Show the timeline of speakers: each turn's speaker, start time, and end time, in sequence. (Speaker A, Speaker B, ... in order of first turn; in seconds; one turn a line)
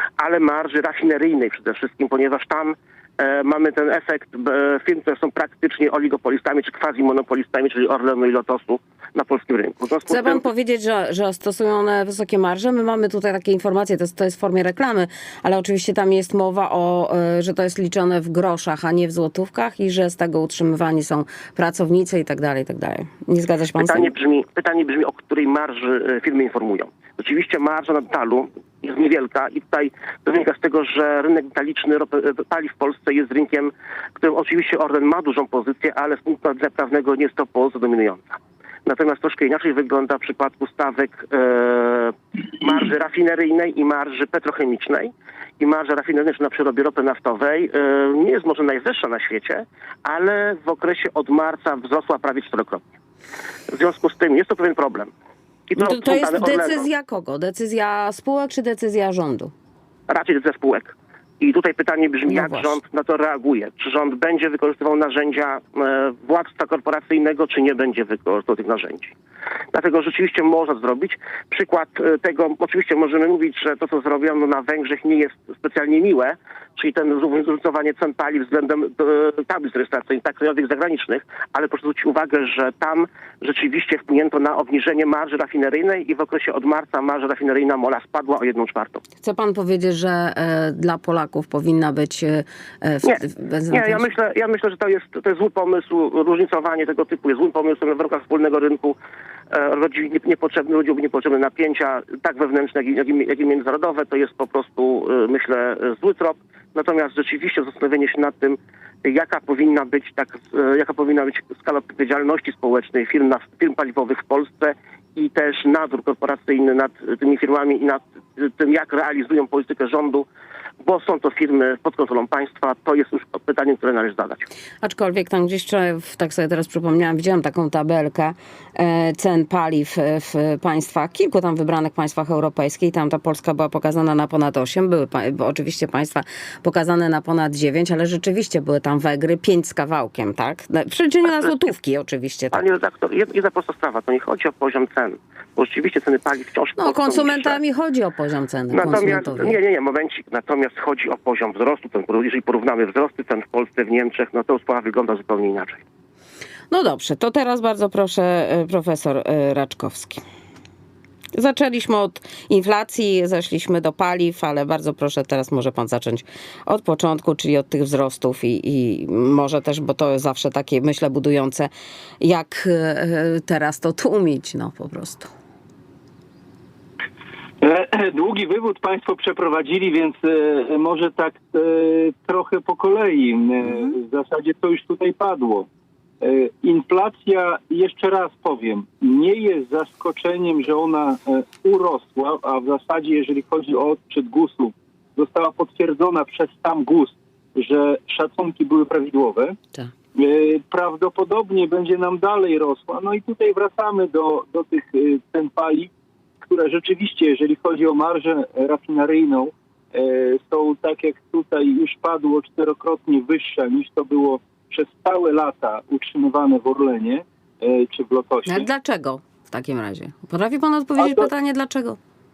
Speaker A: 0.2-10.4
Speaker B: 10.1-24.1
Speaker A: 23.8-52.8
Speaker A: 53.7-55.1
Speaker A: 55.7-56.9
Speaker B: 55.8-59.5
Speaker A: 60.1-69.1
Speaker B: 62.3-62.8
Speaker A: 69.7-89.0
Speaker B: 89.2-94.0
Speaker A: 93.0-99.0
Speaker A: 99.5-120.2
Speaker A: 120.8-124.5
Speaker B: 124.8-142.6
Speaker A: 142.5-147.6
Speaker B: 146.8-149.6
Speaker A: 148.7-155.8
Speaker B: 156.7-160.2
Speaker B: 161.3-175.3
Speaker C: 177.6-185.7
Speaker C: 186.2-199.6
Speaker C: 200.1-218.7
Speaker B: 218.4-222.0
Speaker C: 221.0-221.3